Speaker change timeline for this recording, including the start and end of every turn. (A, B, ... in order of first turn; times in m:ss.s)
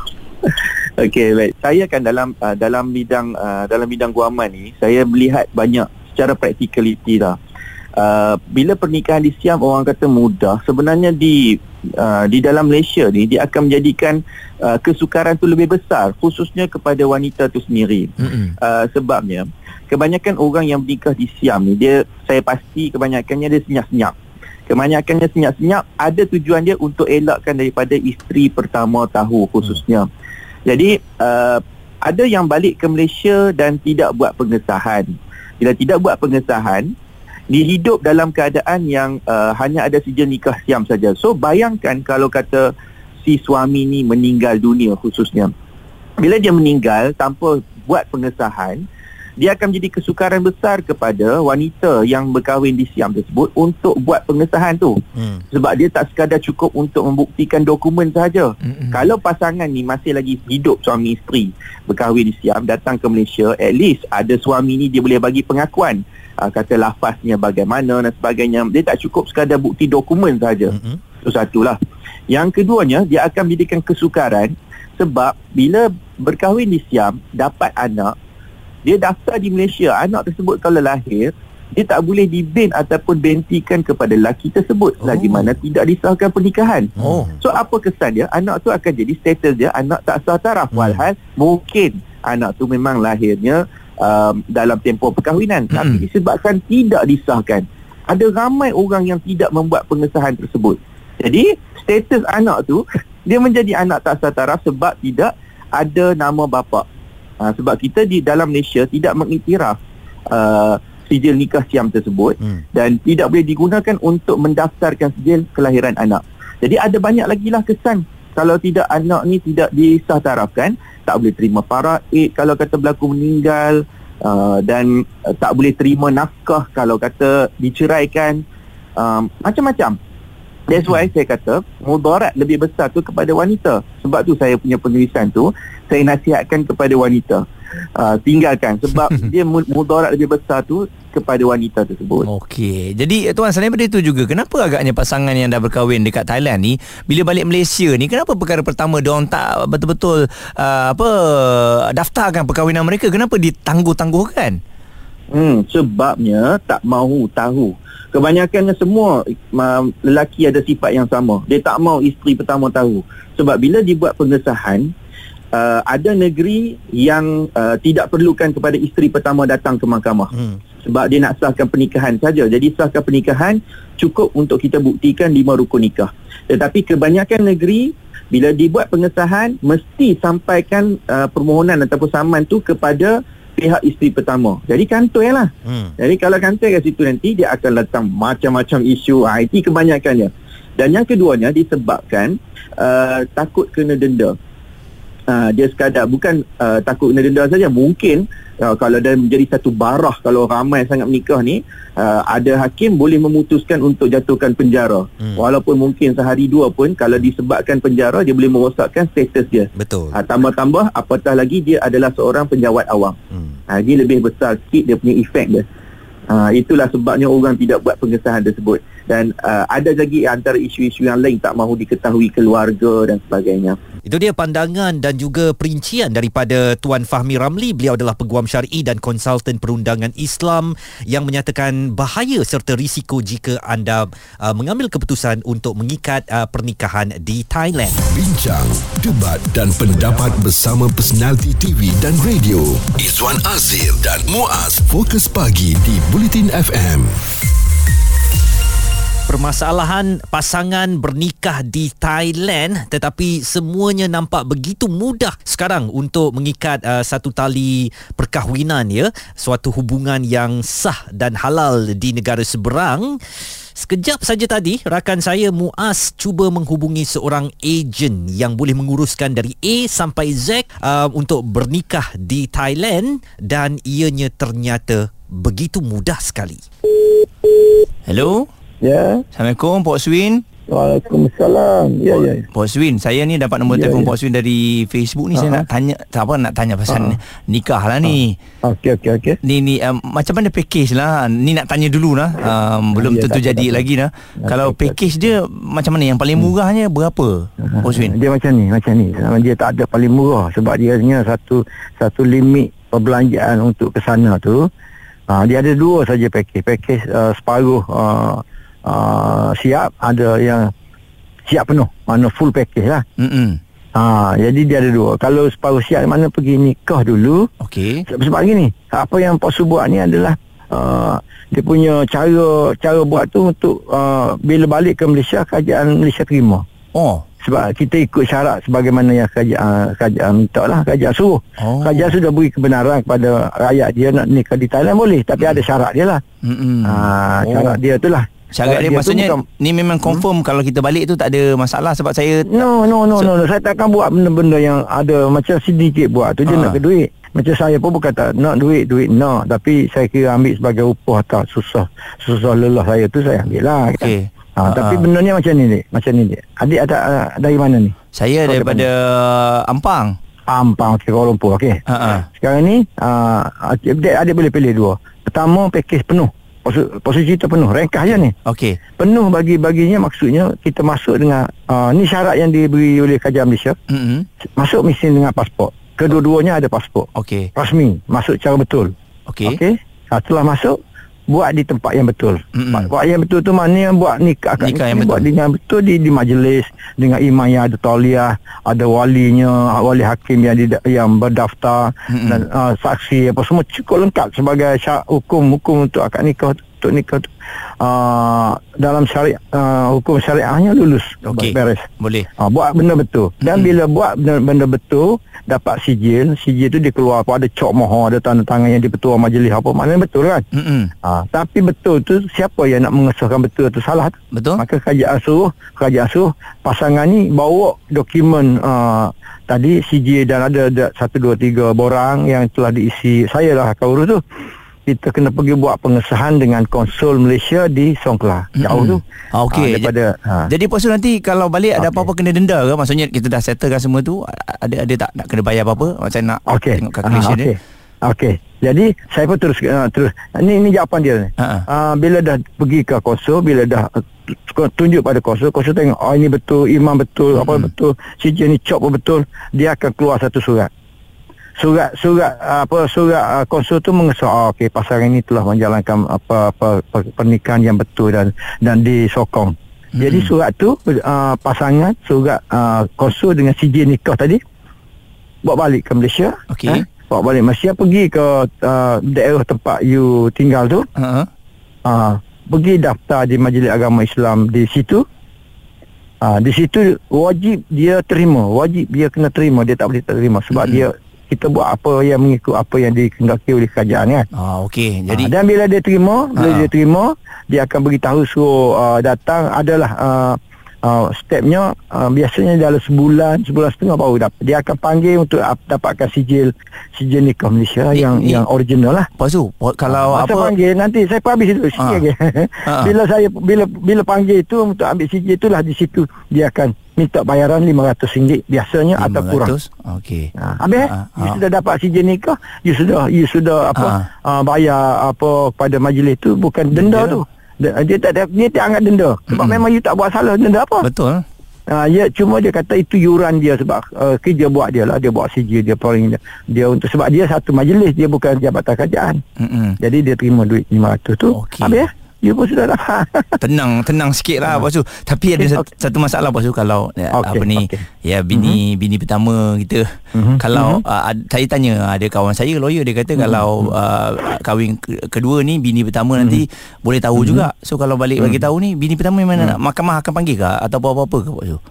0:00.5-0:07.4 A
0:08.0-0:24.1 A
0:18.2-0:18.5 B
0:24.7-0:30.1 A
0:30.7-0:36.9 A
0:37.5-0:42.7 A
0:43.2-0:45.5 A
0:46.2-0:48.8 A
0:49.4-0:55.0 A
0:55.2-0:55.4 C
0:55.5-1:11.8 A
0:58.7-0:59.0 B
1:10.7-1:11.0 C
1:12.3-1:18.1 A
1:18.8-1:46.8 A
1:27.0-1:27.4 C
1:27.0-1:27.3 B
1:30.7-1:31.0 C
1:35.7-1:36.0 B
1:47.4-1:49.8 A
1:50.3-2:08.4 A
2:09.0-2:10.0 A
2:10.7-2:17.4 A
2:18.0-2:22.3 A
2:22.3-2:34.6 B
2:35.3-2:44.9 A
2:45.5-2:50.3 A
2:50.3-2:50.6 C
2:50.8-3:14.4 A
3:05.6-3:06.0 C
3:15.3-3:33.2 A
3:29.8-3:30.2 C
3:33.3-3:33.6 C
3:33.7-3:35.7 A
3:36.3-3:43.8 A
3:44.1-3:58.0 C
3:58.0-4:07.2 D
4:09.3-4:23.2 C
4:23.8-4:36.6 C
4:38.1-4:38.5 B
4:38.8-4:39.2 E
4:39.4-4:40.4 B
4:40.7-4:42.5 E
4:42.5-4:48.4 B
4:43.7-4:44.1 E
4:45.4-4:45.7 E
4:46.9-4:47.2 E
4:48.1-4:49.4 E
4:49.4-4:58.2 B
4:53.0-4:53.8 E
4:54.4-4:55.1 E
4:57.6-5:04.7 E
5:05.3-5:10.7 E
5:11.5-5:13.0 E
5:13.2-5:13.6 B
5:14.0-5:17.5 E
5:17.6-5:18.0 B
5:18.1-5:26.6 E
5:27.0-5:27.2 B
5:27.4-5:36.2 E
5:31.6-5:32.2 B
5:36.4-5:37.8 B
5:36.8-5:39.4 E
5:38.5-5:43.3 B
5:42.5-5:58.0 E
5:46.5-5:46.8 B
5:54.0-5:55.1 B
5:58.2-6:00.2 B
5:58.5-5:58.9 E
6:00.5-6:01.8 E
6:01.9-6:02.3 B
6:02.4-6:08.3 E
6:08.1-6:08.8 B
6:09.0-6:13.8 E
6:13.9-6:14.3 B
6:14.6-6:18.9 E
6:17.2-6:17.5 B
6:19.3-6:19.6 B
6:19.4-6:20.8 E
6:21.3-6:37.3 E
6:22.6-6:22.9 B
6:24.6-6:25.3 B
6:32.1-6:32.5 B
6:37.8-6:41.9 E
6:41.3-6:42.3 B
6:42.4-6:50.4 E
6:43.4-6:43.7 B
6:50.5-6:50.9 B
6:51.0-7:04.2 E
6:54.3-6:54.6 B
7:04.9-7:10.5 E
7:08.6-7:09.9 B
7:10.5-7:17.5 B
7:11.8-7:12.1 E
7:16.5-7:30.7 E
7:21.4-7:21.7 B
7:27.4-7:27.7 B
7:31.6-7:44.4 E
7:40.0-7:40.3 B
7:45.4-7:50.9 E
7:46.5-7:46.8 B
7:51.0-7:51.3 B
7:51.8-7:55.0 E
7:56.2-8:04.3 E
8:00.5-8:00.9 B
8:04.4-8:05.3 B
8:05.1-8:19.1 E
8:06.4-8:06.7 B
8:17.9-8:18.4 B
8:19.2-8:20.5 B
8:19.9-8:29.5 E
8:21.8-8:22.0 B
8:22.7-8:22.9 B
8:29.0-8:30.3 B
8:30.4-8:40.9 E
8:30.8-8:31.4 B
8:33.8-8:34.1 B
8:36.7-8:37.2 B
8:39.3-8:39.6 B
8:40.8-8:41.2 B
8:41.7-8:49.2 E
8:49.4-8:49.8 B
8:49.8-8:53.4 E
8:51.4-8:51.8 B
8:53.4-8:59.9 B
8:55.4-8:55.6 E
8:57.2-8:58.6 E
9:00.2-9:00.8 E
9:00.4-9:11.6 B
9:03.2-9:03.7 E
9:06.2-9:06.4 E
9:07.2-9:07.4 E
9:08.2-9:08.4 E